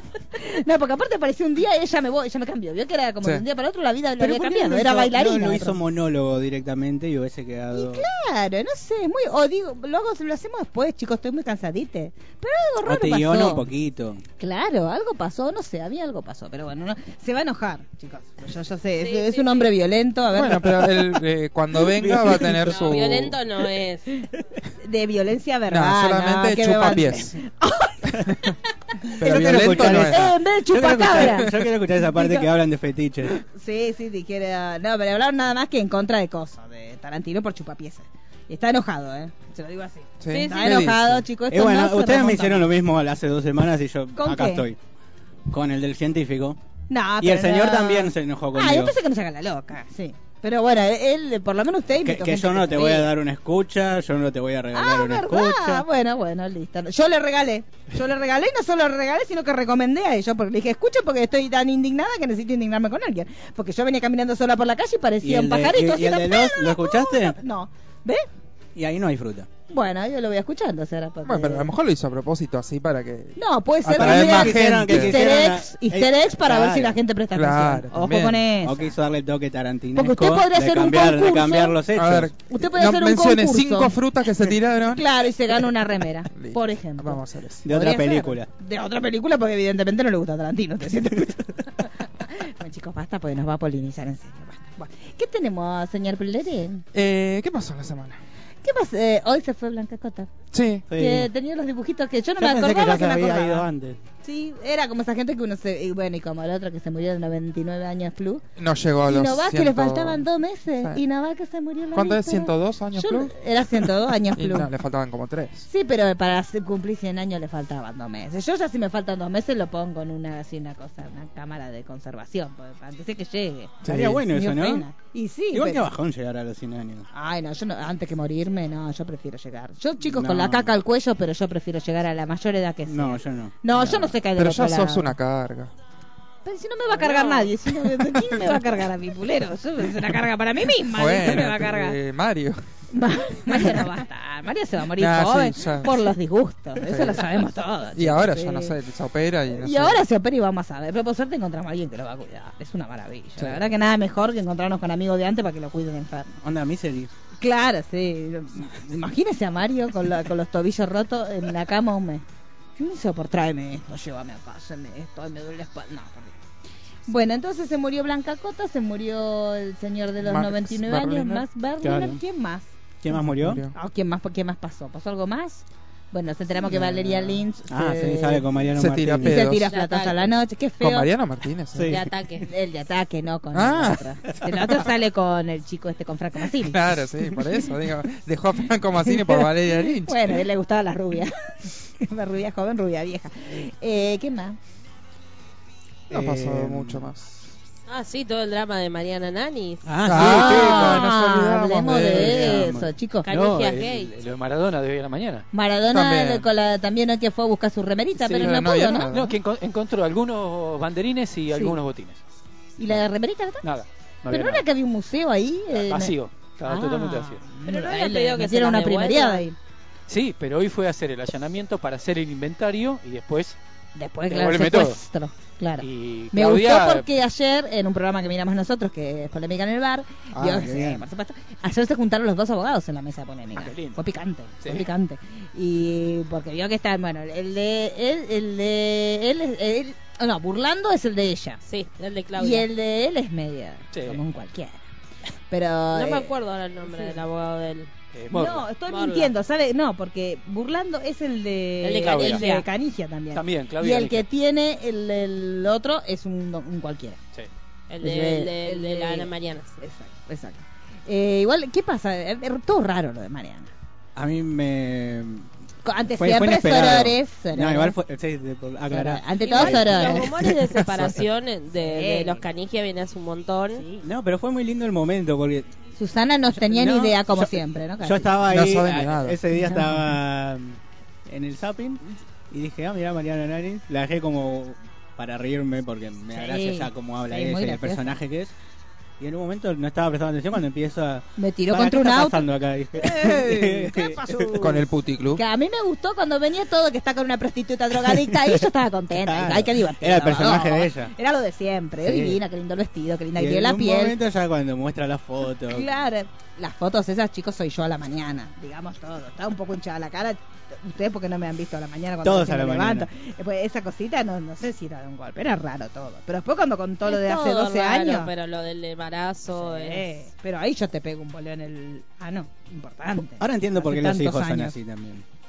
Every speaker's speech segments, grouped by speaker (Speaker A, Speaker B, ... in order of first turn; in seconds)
Speaker A: 0.3-5.8, 7.7-13.7, 14.4-21.0, 24.8-28.2, 29.2-32.5, 33.4-42.7, 44.2-44.6, 46.9-53.1, 54.7-68.3, 69.7-71.7, 73.4-79.0, 80.0-81.8, 82.5-84.0, 84.9-96.8, 98.6-100.3, 100.9-103.7, 104.2-108.4, 109.1-114.7, 115.7-125.9, 127.1-135.1, 136.4-142.0, 142.9-148.8, 149.5-156.3, 157.4-162.2, 162.8-166.4, 167.1-172.7, 173.7-178.5, 179.2-181.1, 182.4-187.6, 189.0-194.6, 200.1-203.3, 205.5-209.3, 211.5-211.8, 212.8-213.7, 214.3-219.6, 224.0-241.6, 242.4-244.8, 245.5-246.3, 246.9-247.2, 248.3-257.2, 258.0-263.7, 265.9-268.0, 268.9-270.3, 271.8-272.4, 273.8-274.0, 276.0-278.3, 279.6-280.0, 286.3-288.2, 291.4-304.2, 305.7-318.3, 319.5-324.8
Speaker B: 4.2-8.1, 12.8-14.2, 21.8-23.1, 29.2-33.4, 41.5-44.8, 45.5-46.6, 47.2-49.0, 52.0-55.9, 65.2-67.4, 68.8-69.5, 74.0-77.0, 78.6-82.3, 87.6-88.5, 100.9-101.3, 102.4-104.0, 123.8-124.9, 125.5-127.1, 130.0-130.7, 132.9-133.6, 156.4-157.1, 173.0-173.7, 176.7-179.5, 181.7-182.0, 196.1-197.1, 199.9-201.3, 201.9-202.9, 230.4-231.0, 264.2-265.5, 266.2-270.3, 274.0-275.7, 276.6-288.6, 289.2-294.5, 298.0-301.1, 302.0-302.4, 303.4-305.9, 312.2-313.1, 323.4-325.2
Speaker C: 19.0-19.7, 22.7-24.1, 40.3-40.9, 137.1-137.4, 179.6-180.3, 181.9-182.5, 197.9-199.9, 203.2-204.1, 217.7-219.5, 241.7-242.7, 245.9-247.9, 248.9-249.3, 251.8-252.7, 257.9-259.8, 269.4-273.9, 317.1-320.1
Speaker D: 20.3-23.4, 25.7-27.4, 28.3-28.5, 29.2-30.4, 40.2-41.2, 71.3-75.2, 77.3-78.4, 82.0-85.1, 86.3-87.7, 96.9-98.2, 100.5-100.8, 108.6-110.3, 111.9-115.7, 123.8-124.2, 133.9-135.7, 138.1-138.5, 140.9-142.6, 143.5-143.8, 145.0-146.1, 146.8-147.4, 147.9-150.0, 170.2-171.5, 173.3-173.7, 178.8-179.7, 180.8-182.0, 183.5-184.9, 186.7-190.4, 196.1-197.5, 200.1-202.7, 205.9-206.5, 208.4-209.3, 270.4-271.2, 278.5-279.4, 294.6-295.4
Speaker E: 199.9-200.9, 203.3-205.5, 208.2-212.2, 213.6-214.7, 215.7-217.5, 220.1-223.6, 224.3-225.0, 225.8-227.1, 233.6-234.0, 234.6-234.9, 243.9-244.2, 248.1-248.7, 252.0-252.5, 253.3-254.3